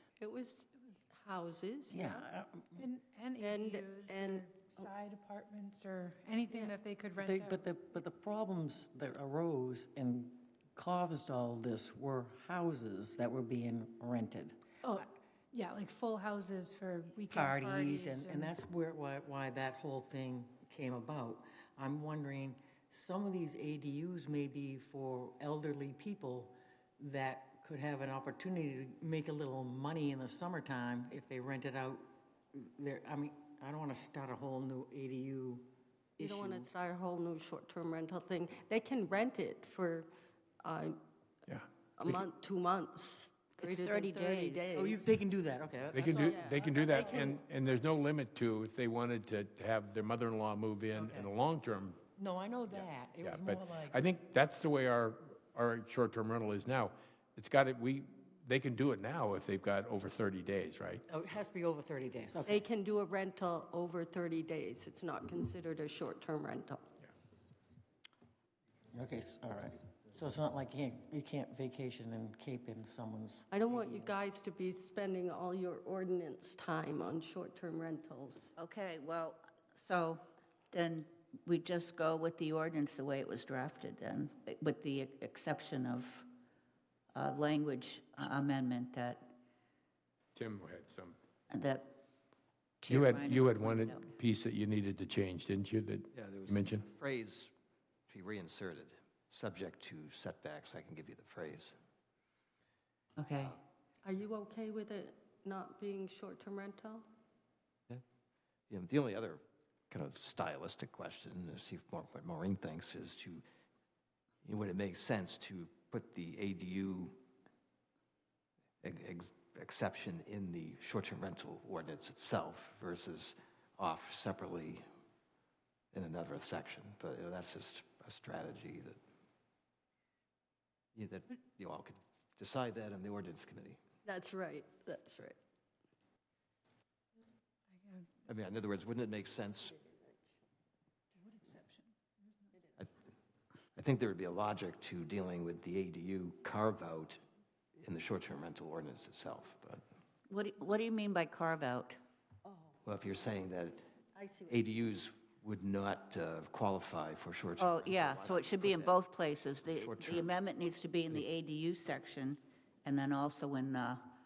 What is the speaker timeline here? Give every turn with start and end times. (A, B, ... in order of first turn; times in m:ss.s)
0:00.2-0:02.2 A
0:01.9-0:02.8 B
0:02.8-0:07.6 C
0:03.4-0:04.9 A
0:06.5-0:06.8 A
0:07.2-0:14.6 B
0:14.8-0:18.6 C
0:17.3-0:36.7 B
0:36.2-0:40.1 A
0:40.6-0:41.0 A
0:41.5-0:42.2 D
0:42.0-0:45.0 A
0:43.6-0:44.8 E
0:44.7-0:47.3 B
0:45.9-0:52.0 D
0:46.2-0:47.4 A
0:50.9-0:51.3 B
0:52.2-0:54.1 B
0:52.7-1:01.0 D
1:01.1-1:02.6 B
1:02.5-1:06.8 A
1:08.9-1:13.9 B
1:13.5-1:18.5 A
1:18.6-1:26.2 E
1:27.1-1:29.2 E
1:30.3-1:31.2 D
1:31.5-1:31.9 E
1:32.8-1:34.1 E
1:32.9-1:36.8 D
1:36.1-1:37.5 F
1:38.1-1:41.8 F
1:43.2-1:43.5 E
1:43.3-1:43.6 F
1:44.0-1:47.0 A
1:48.7-1:53.4 F
1:54.4-1:57.2 F
1:58.8-2:04.8 F
2:05.9-2:09.0 F
2:10.9-2:13.8 F
2:14.0-2:15.4 A
2:17.7-2:18.2 C
2:18.2-2:19.7 F
2:19.7-2:20.2 A
2:21.2-2:22.6 C
2:23.8-2:27.2 F
2:27.8-2:29.8 F
2:30.3-2:32.0 E
2:32.8-2:33.8 F
2:34.1-2:34.6 A
2:34.5-2:40.3 F
2:37.6-2:44.0 E